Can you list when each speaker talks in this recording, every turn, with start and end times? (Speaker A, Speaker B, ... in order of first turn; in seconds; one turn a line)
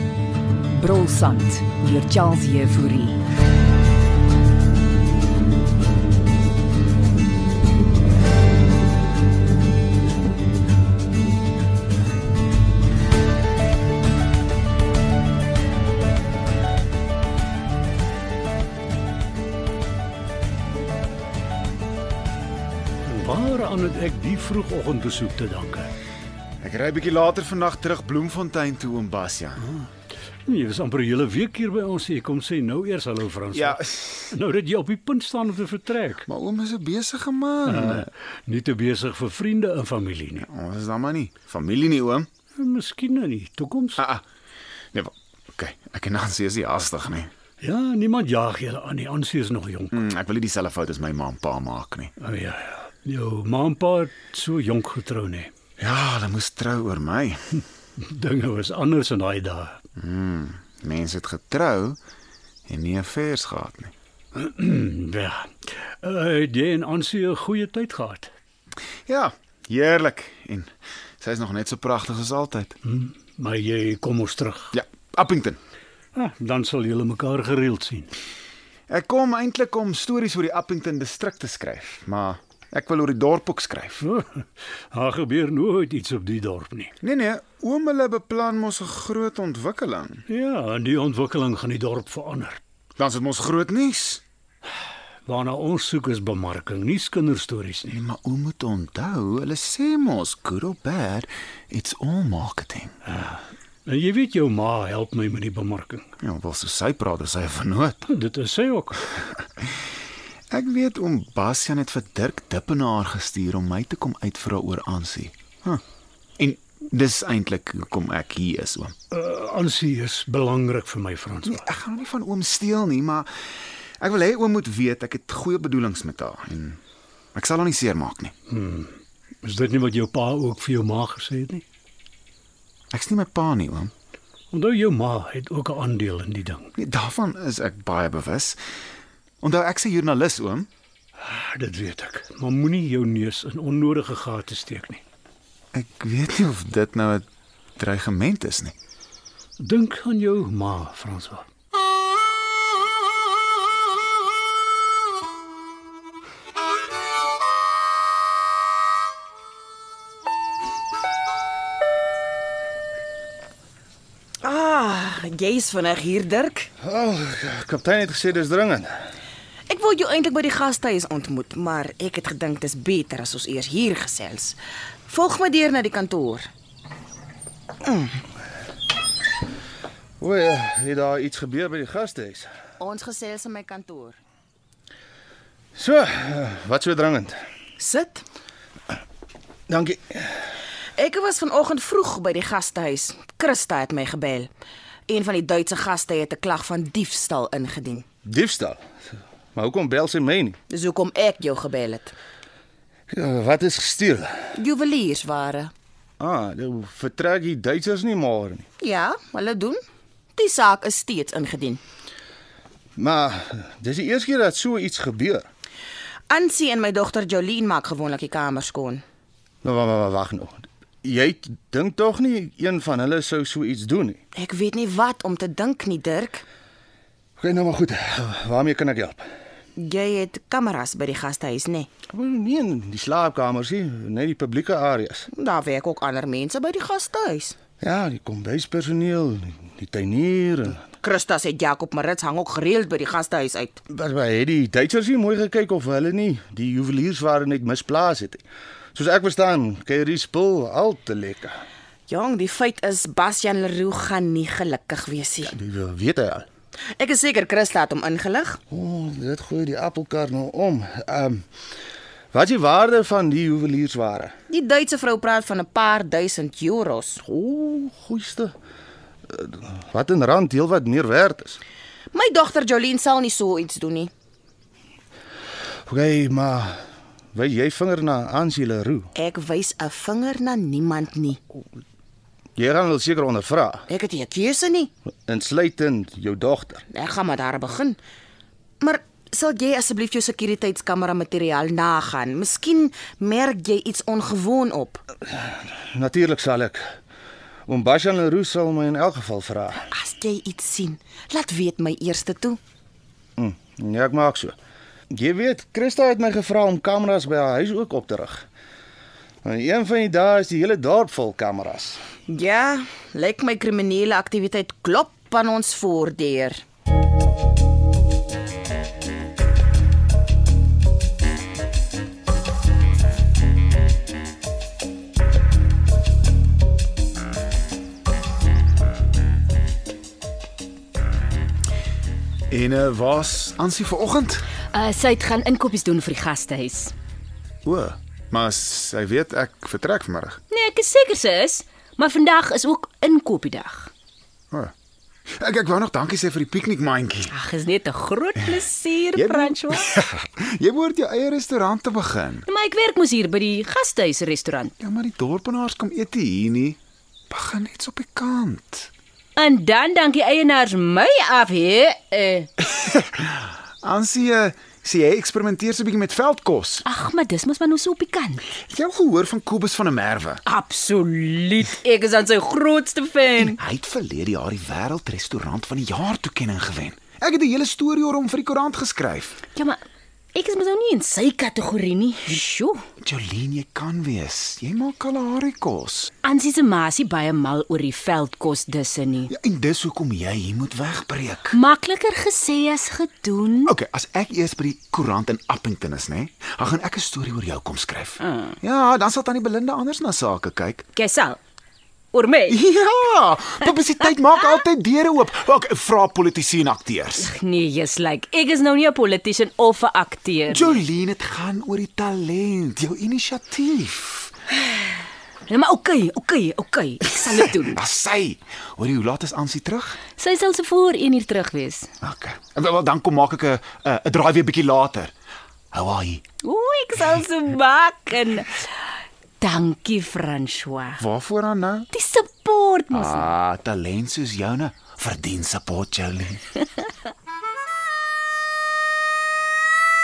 Speaker A: 0.7-3.2
Speaker B: 23.1-25.9
Speaker C: 26.6-29.6
Speaker B: 29.6-29.9
Speaker B: 30.5-36.3
Speaker C: 33.5-34.3
Speaker C: 36.3-38.1
Speaker B: 37.7-40.5
Speaker C: 40.4-42.3
Speaker B: 42.6-44.0
Speaker C: 44.0-44.2
Speaker C: 44.9-47.3
Speaker B: 47.6-50.0
Speaker C: 49.9-52.1
Speaker B: 52.2-55.5
Speaker C: 55.8-57.6
Speaker B: 58.0-59.8
Speaker C: 60.0-62.0
Speaker C: 62.7-63.9
Speaker B: 64.3-65.5
Speaker B: 66.0-68.3
Speaker C: 69.1-70.7
Speaker C: 71.2-72.8
Speaker B: 72.8-74.7
Speaker C: 74.7-75.6
Speaker B: 76.2-78.1
Speaker C: 78.9-84.0
Speaker B: 84.0-86.9
Speaker C: 87.0-90.2
Speaker B: 90.3-92.6
Speaker C: 93.0-94.2
Speaker B: 95.3-98.0
Speaker C: 97.9-102.9
Speaker B: 103.1-106.1
Speaker C: 106.2-108.0
Speaker B: 108.1-109.3
Speaker C: 110.5-115.8
Speaker C: 116.4-118.9
Speaker B: 119.1-121.6
Speaker C: 121.5-123.3
Speaker C: 124.0-126.8
Speaker C: 127.3-128.3
Speaker B: 128.5-131.6
Speaker C: 132.9-133.9
Speaker B: 134.5-136.7
Speaker C: 136.8-138.6
Speaker C: 139.4-140.7
Speaker B: 141.2-145.0
Speaker C: 145.7-147.3
Speaker C: 147.8-148.7
Speaker B: 149.6-151.4
Speaker D: 164.4-166.7
Speaker E: 166.8-168.9
Speaker D: 169.7-176.5
Speaker D: 177.8-178.1
Speaker E: 180.2-182.5
Speaker D: 182.8-184.2
Speaker E: 185.8-187.4
Speaker D: 187.8-188.2
Speaker E: 189.7-190.3
Speaker D: 191.0-194.5
Speaker D: 195.1-198.1
Speaker E: 198.2-198.8
Speaker E: 199.6-200.6
Speaker D: 200.7-202.1
Speaker E: 203.1-204.3
Speaker D: 204.6-205.7
Speaker E: 206.2-208.7
Speaker D: 208.8-209.8
Speaker D: 210.4-211.8
Speaker E: 213.0-215.5
Speaker D: 216.3-219.0
Speaker E: 219.6-224.2
Speaker D: 224.3-226.4
Speaker E: 227.4-229.2
Speaker D: 229.8-231.9
Speaker E: 232.1-235.3
Speaker D: 235.3-237.6
Speaker E: 237.8-240.8
Speaker D: 241.0-243.8
Speaker E: 243.9-248.4
Speaker E: 248.9-251.5
Speaker D: 252.1-255.6
Speaker E: 255.4-256.5
Speaker D: 256.9-258.6
Speaker E: 258.7-261.4
Speaker E: 262.3-264.3
Speaker D: 264.5-267.2
Speaker E: 267.2-268.5
Speaker E: 269.3-271.6
Speaker D: 272.1-274.1
Speaker E: 275.9-276.8
Speaker E: 277.3-279.1
Speaker D: 279.1-281.4
Speaker E: 282.6-283.9
Speaker D: 283.9-284.9
Speaker E: 285.3-286.8
Speaker D: 286.9-288.0
Speaker D: 288.8-295.0
Speaker E: 295.3-296.8
Speaker E: 297.7-299.9
Speaker D: 299.9-302.6
Speaker E: 303.4-304.6
Speaker E: 305.1-308.4
Speaker E: 309.4-312.0
Speaker D: 312.3-316.6
Speaker C: 332.5-334.5
Speaker F: 334.7-336.9
Speaker C: 337.6-340.4
Speaker F: 340.5-343.9
Speaker C: 345.3-347.3
Speaker F: 347.3-349.9
Speaker C: 349.1-352.4
Speaker F: 352.5-354.7
Speaker C: 354.8-356.8
Speaker C: 357.3-358.9
Speaker F: 359.4-362.5
Speaker C: 362.9-366.8
Speaker F: 366.9-368.4
Speaker C: 368.7-370.4
Speaker F: 370.4-373.6
Speaker C: 373.4-379.4
Speaker F: 379.6-379.8
Speaker F: 380.3-382.8
Speaker C: 383.0-386.1
Speaker F: 386.2-389.3
Speaker C: 389.3-391.6
Speaker F: 391.5-393.7
Speaker C: 393.7-400.9
Speaker F: 398.3-398.6
Speaker F: 401.0-401.4
Speaker F: 402.1-402.6
Speaker C: 402.5-407.3
Speaker F: 407.2-410.8
Speaker C: 410.5-414.3
Speaker F: 415.5-417.8
Speaker C: 417.6-420.0
Speaker F: 420.2-421.9
Speaker C: 422.0-425.1
Speaker C: 425.7-426.2
Speaker F: 426.4-428.5
Speaker F: 429.4-431.0
Speaker C: 431.0-431.9
Speaker F: 431.9-433.2
Speaker C: 432.9-436.4